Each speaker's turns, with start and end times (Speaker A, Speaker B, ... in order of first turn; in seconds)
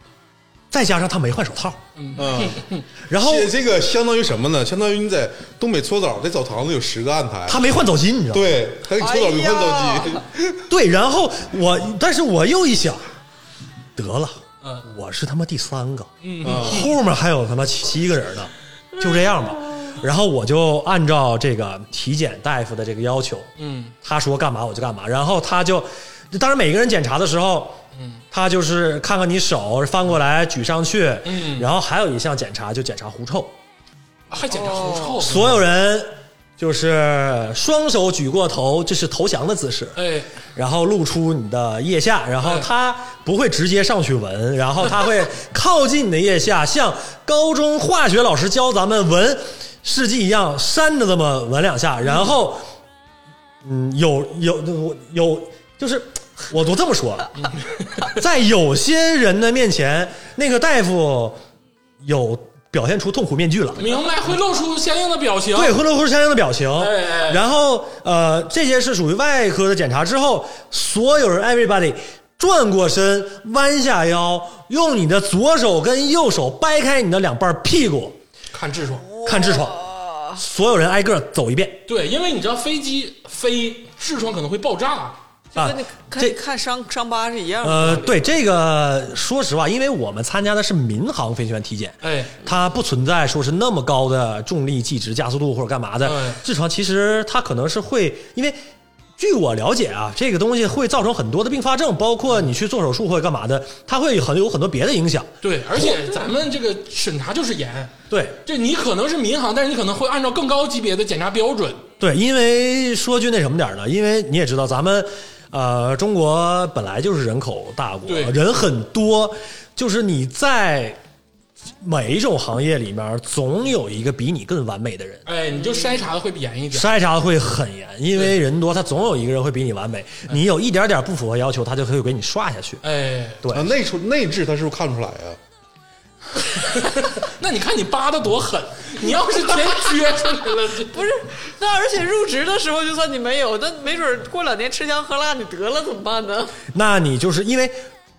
Speaker A: 0.7-1.8, 3.1-3.5, 7.5-8.5, 10.7-13.0, 13.9-23.5, 24.0-27.8, 28.3-33.5, 35.2-40.0, 40.5-52.6, 53.6-57.3, 58.0-61.4, 62.0-63.9, 65.5-78.2, 79.2-79.8, 80.3-81.8, 85.5-86.4, 87.6-98.6, 99.2-106.1, 108.1-108.4, 112.0-121.0, 121.8-125.3, 126.7-132.8, 133.4-133.7, 146.7-147.8
Speaker B: 1.9-2.8, 14.6-14.9, 16.2-16.9, 23.6-23.9, 27.9-28.2, 31.2-31.7, 34.3-35.6, 40.0-40.3, 42.4-42.7, 57.4-58.1, 63.8-65.8, 66.8-67.4, 78.5-79.1, 81.9-85.2, 92.0-92.3, 96.0-96.4, 105.4-107.9, 108.4-111.8, 118.1-118.4, 125.2-126.9, 132.8-133.4, 136.4-141.0
Speaker C: 2.2-2.6, 3.1-7.6, 8.3-10.6, 16.4-16.8, 133.5-135.4
Speaker D: 9.0-10.2, 34.5-35.1, 79.2-80.3, 85.5-88.2, 125.6-126.0, 140.9-146.6